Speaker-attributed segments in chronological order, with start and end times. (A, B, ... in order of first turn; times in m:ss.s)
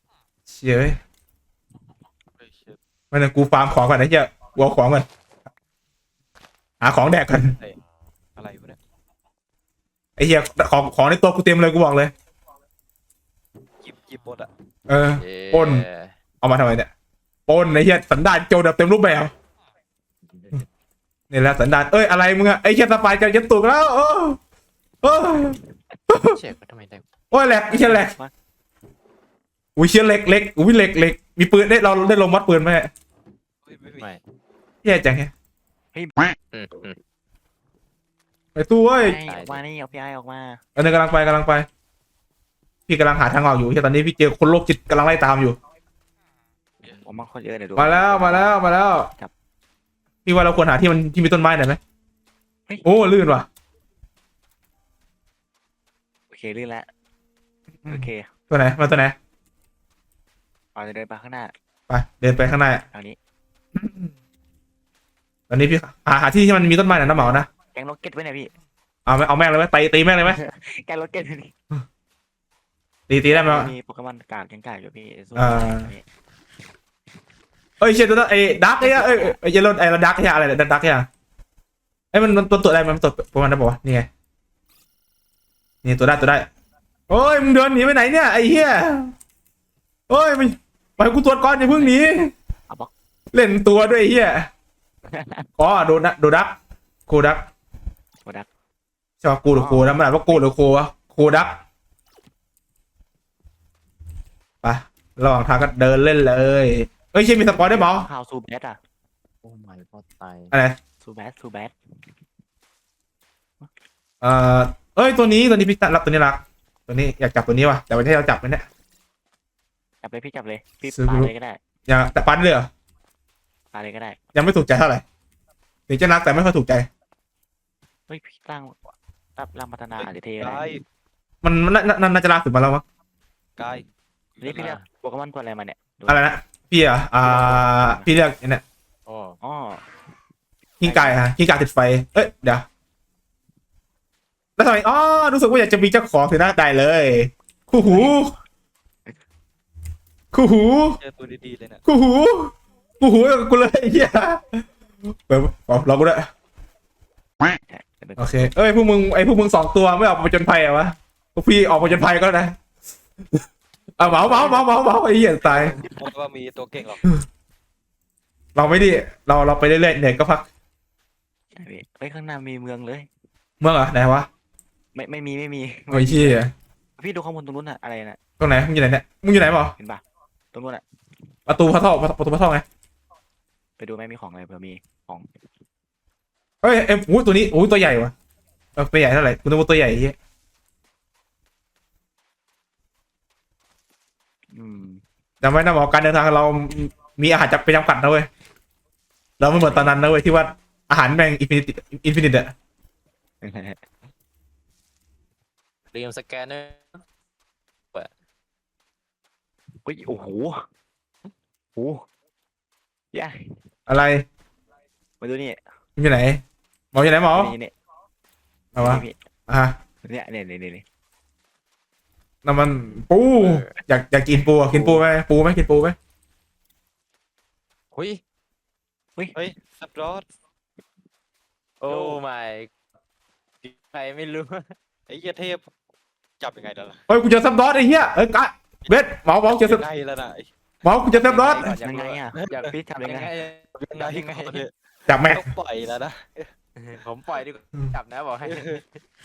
0:00.5-0:01.0 A
0:02.4-0:02.8 B
0:03.1-0:05.1 A
0:06.8-0:07.6 A
0:08.4-0:08.8 B
0:10.2-0:12.1 A
0:13.8-0:14.5 B
0:14.9-0:15.8 A
0:15.2-0:16.1 C
0:16.4-0:16.9 A
0:17.5-0:19.3 A
0:20.3-0:20.6 C
0:21.3-0:24.4 A
0:25.0-0:25.6 A
0:26.1-0:26.4 A
0:26.2-0:27.0 C
0:27.3-0:28.1 A
0:27.7-0:28.3 D
0:29.8-0:32.9 A
0:33.6-0:34.2 B
0:34.8-0:35.3 A
0:35.9-0:36.2 D
0:36.5-0:37.0 C
0:38.5-0:39.2 A
0:39.0-0:40.6 D
0:39.3-0:39.6 C
0:40.8-0:41.7 A
0:42.9-0:45.6 A
0:47.0-0:48.6 D
0:47.8-0:49.1 A
0:50.2-0:51.8 A
0:52.8-0:53.5 A
0:56.3-0:56.9 D
0:57.8-0:59.1 A
0:57.9-0:58.3 D
1:00.7-1:01.5 D
1:01.9-1:02.8 A
1:02.9-1:03.2 D
1:03.8-1:04.1 A
1:05.5-1:07.5 A
1:06.9-1:08.5 D
1:09.0-1:10.4 A
1:10.2-1:11.5 D
1:13.1-1:13.7 A
1:13.3-1:16.0 D
1:15.3-1:15.9 A
1:17.8-1:21.1 A
1:18.8-1:19.4 D
1:22.1-1:24.1 A
1:25.8-1:26.5 A
1:27.1-1:29.1 A
1:30.1-1:32.3 A
1:33.3-1:34.5 A
1:35.1-1:35.5 D
1:35.6-1:36.5 A
1:37.1-1:37.4 A
1:39.2-1:41.6 A
1:39.5-1:40.4 D
1:44.6-1:48.1 A
1:47.6-1:48.8 D
1:49.4-1:50.5 C
1:50.5-1:50.8 A
1:51.0-1:51.7 D
1:54.2-1:58.6 A
2:00.0-2:01.6 D
2:00.9-2:01.3 A
2:01.9-2:02.7 A
2:03.7-2:04.2 D
2:04.3-2:05.0 A
2:05.9-2:06.9 A
2:08.1-2:10.6 D
2:10.0-2:10.8 B
2:11.4-2:12.8 A
2:13.6-2:14.8 B
2:14.4-2:16.3 D
2:14.6-2:14.8 C
2:16.1-2:18.6 A
2:17.2-2:18.1 D
2:19.0-2:19.4 C
2:19.4-2:19.8 D
2:20.8-2:22.6 A
2:20.8-2:21.2 D
2:24.6-2:28.3 A
2:27.8-2:28.4 D
2:30.3-2:31.0 A
2:31.0-2:31.8 B
2:31.8-2:34.7 A
2:35.3-2:36.3 A
2:37.7-2:38.5 D
2:38.2-2:42.6 A
2:44.0-2:45.7 A
2:44.1-2:44.5 D
2:44.2-2:44.6 B
2:45.4-2:47.1 B
2:48.5-2:50.5 A
2:51.5-2:53.1 D
2:53.6-2:54.3 A
2:54.9-2:56.4 D
2:55.9-2:56.5 A
2:57.0-2:58.2 D
2:58.4-2:59.7 A
3:00.5-3:00.8 D
3:01.5-3:02.6 A
3:03.8-3:05.3 D
3:06.6-3:08.1 A
3:08.8-3:10.1 A
3:14.5-3:15.0 D
3:15.4-3:18.3 A
3:19.4-3:22.5 A
3:19.5-3:20.0 D
3:23.4-3:23.8 D
3:25.9-3:27.0 C
3:29.8-3:30.6 D
3:31.8-3:32.0 D
3:33.1-3:33.6 D
3:33.9-3:34.2 A
3:35.2-3:35.6 D
3:36.0-3:37.5 A
3:37.3-3:37.7 D
3:38.7-3:39.8 A
3:38.8-3:39.2 D
3:40.0-3:40.8 D
3:42.4-3:46.0 A
3:43.4-3:43.7 C
3:44.5-3:45.0 D
3:47.9-3:48.2 C
3:49.3-3:50.2 B
3:51.8-3:52.7 C
3:51.9-3:52.2 D
3:53.6-3:54.7 C
3:55.1-3:55.6 B
3:56.4-3:57.0 B
3:57.1-3:59.8 A
3:58.9-4:00.5 B
4:00.8-4:01.7 A
4:01.2-4:04.6 C
4:01.3-4:01.8 B
4:01.6-4:03.3 D
4:03.8-4:04.7 B
4:05.1-4:05.5 A
4:05.2-4:06.5 B
4:06.8-4:09.0 C
4:08.4-4:08.8 B